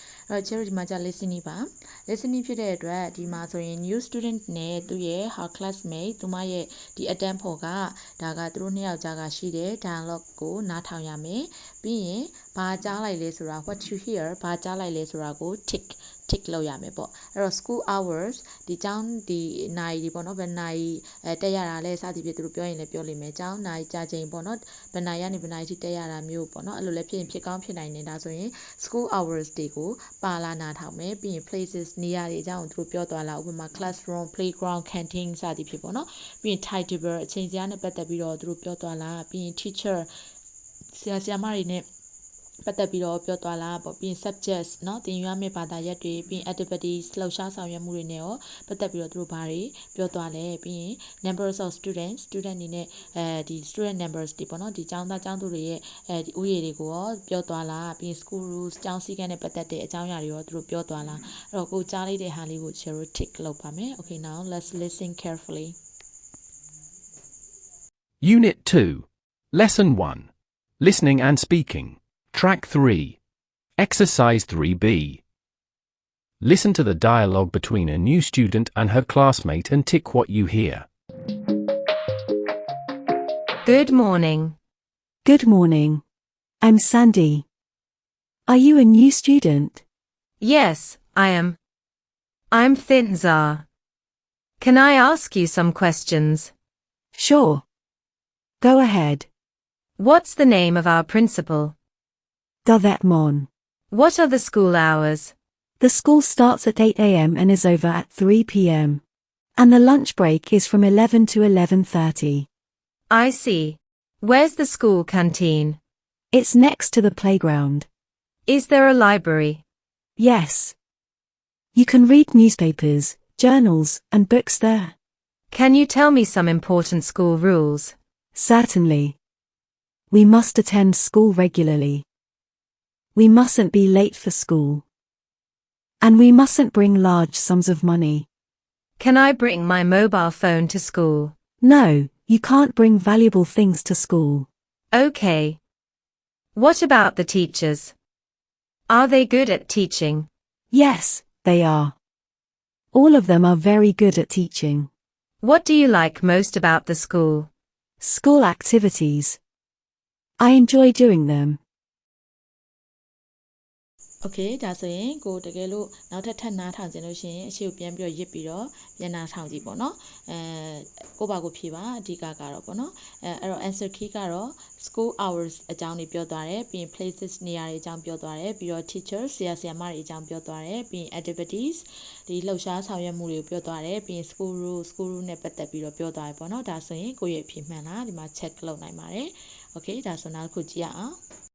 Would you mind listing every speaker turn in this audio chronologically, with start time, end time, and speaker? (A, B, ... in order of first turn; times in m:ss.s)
0:00.3-0:40.1 A
0:40.9-0:41.8 A
0:42.6-1:05.8 A
1:08.2-1:10.3 B
1:10.8-1:13.2 B
1:13.8-1:15.2 B
1:16.4-1:20.9 B
1:23.6-1:24.6 C
1:25.2-1:26.0 D
1:26.6-1:27.4 D
1:28.5-1:29.8 D
1:30.4-1:31.6 C
1:32.5-1:33.6 C
1:34.6-1:36.5 C
1:37.1-1:37.6 D
1:38.6-1:39.3 D
1:40.0-1:41.7 C
1:42.6-1:43.5 D
1:43.9-1:45.3 C
1:45.8-1:49.0 D
1:49.6-1:52.5 D
1:53.1-1:55.8 C
1:56.3-1:57.9 D
1:58.5-1:59.6 C
2:00.2-2:00.7 D
2:01.7-2:04.9 D
2:05.5-2:07.9 C
2:08.3-2:09.2 D
2:10.1-2:12.0 D
2:13.1-2:14.8 D
2:16.0-2:18.2 D
2:19.0-2:21.3 C
2:21.6-2:24.5 D
2:24.9-2:25.6 C
2:26.5-2:27.9 C
2:28.9-2:30.3 C
2:30.7-2:31.9 D
2:32.9-2:34.9 D
2:35.4-2:37.5 C
2:38.0-2:39.4 D
2:40.4-2:41.6 D
2:44.2-3:11.2 A